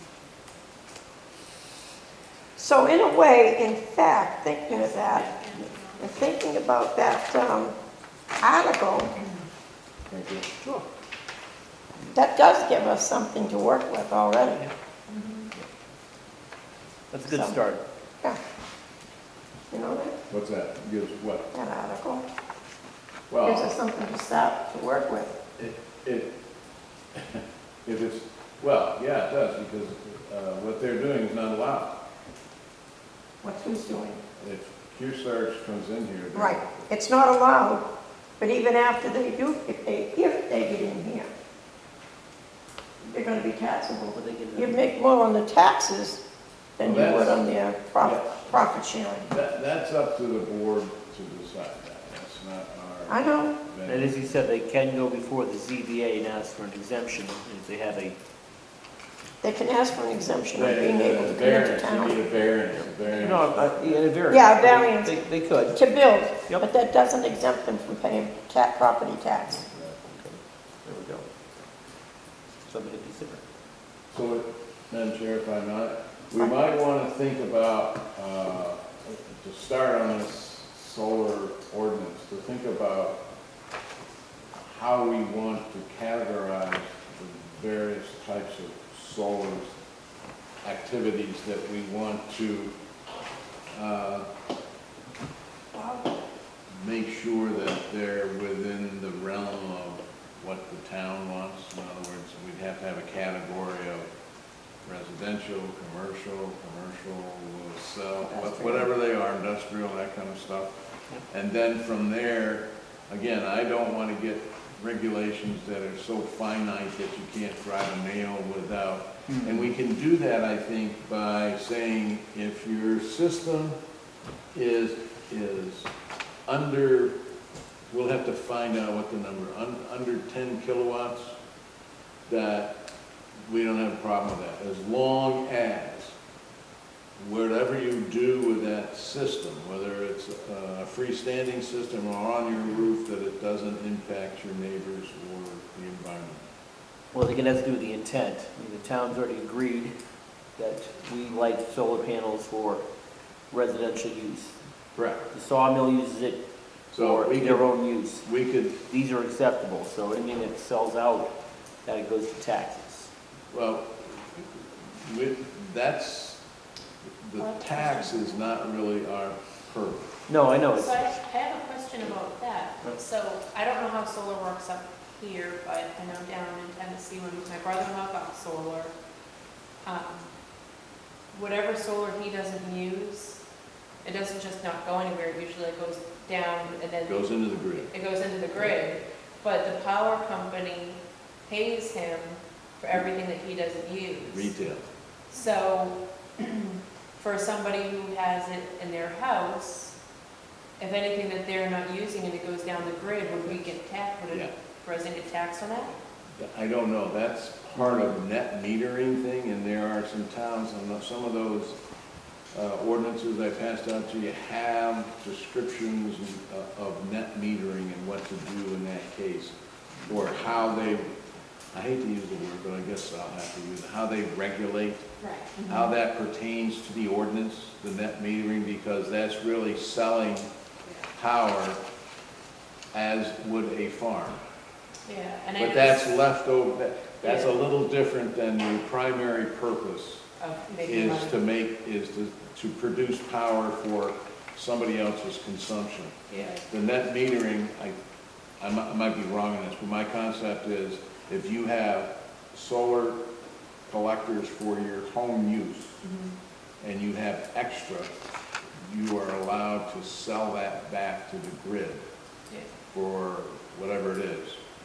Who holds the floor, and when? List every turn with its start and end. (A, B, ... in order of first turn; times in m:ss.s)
0:02.6-0:05.3 A
0:04.7-0:06.3 B
0:06.0-0:07.8 A
0:08.4-0:09.2 A
0:10.1-0:10.5 C
0:12.1-0:14.6 A
0:15.1-0:15.5 B
0:17.1-0:17.8 D
0:17.3-0:17.6 A
0:19.7-0:20.2 A
0:20.3-0:21.5 C
0:21.5-0:22.2 A
0:23.3-0:23.7 C
0:23.4-0:25.3 A
0:25.6-0:26.3 C
0:27.1-0:32.0 C
0:33.4-0:34.2 A
0:34.4-0:36.8 C
0:36.3-0:37.8 A
0:38.4-0:41.3 A
0:43.0-0:46.2 A
0:44.1-0:44.8 D
0:46.8-0:49.2 A
0:46.8-0:47.5 C
0:48.0-0:48.5 C
0:49.2-0:54.3 C
0:53.1-0:53.5 A
0:53.9-0:58.2 D
0:59.4-1:02.3 A
1:00.5-1:04.1 C
1:03.1-1:06.6 D
1:04.3-1:09.6 A
1:10.0-1:11.3 D
1:12.6-1:13.4 D
1:14.1-1:23.2 C
1:24.6-1:29.7 C
1:30.6-1:32.7 C
1:33.7-1:34.3 C
1:35.7-1:36.2 A
1:36.7-1:44.0 C
1:44.8-1:50.7 C
1:48.2-1:48.9 A
1:51.3-2:03.8 C
1:59.3-1:59.7 D
2:04.5-2:05.9 C
2:06.5-2:07.2 C
2:07.9-2:11.3 C
2:12.3-2:12.8 C
2:13.5-2:16.1 C
2:17.2-2:26.4 C
2:27.1-2:29.9 D
2:30.6-2:32.8 D
2:33.5-2:34.5 D
2:35.0-2:35.2 C
2:35.3-2:36.4 D
2:36.9-2:38.8 C
2:36.9-2:38.3 D
2:38.8-2:41.3 D
2:41.8-2:43.1 D
2:43.5-2:46.4 C
2:47.2-2:50.1 C
2:47.4-2:48.6 B
2:50.3-2:51.1 D
2:50.7-2:58.9 B
2:59.8-3:00.3 B
3:01.3-3:03.4 B
3:04.0-3:14.5 B
3:07.1-3:07.9 C
3:14.3-3:14.8 C
3:15.3-3:16.6 B
3:17.2-3:20.0 B
3:20.8-3:26.0 B
3:26.4-3:31.8 C
3:32.5-3:39.5 C
3:40.1-3:41.1 C
3:41.7-3:45.1 C
3:45.2-3:45.9 B
3:45.7-3:50.5 C
3:51.1-3:51.8 C
3:52.9-3:54.4 C
3:55.0-3:56.2 B
3:55.6-4:00.2 C
3:57.2-3:57.6 B
4:00.4-4:01.4 B
4:00.8-4:07.9 C
4:06.3-4:06.7 B
4:08.6-4:13.2 C
4:13.9-4:16.0 C
4:16.0-4:16.3 B
4:16.8-4:18.1 C
4:18.8-4:22.0 C
4:22.9-4:24.6 C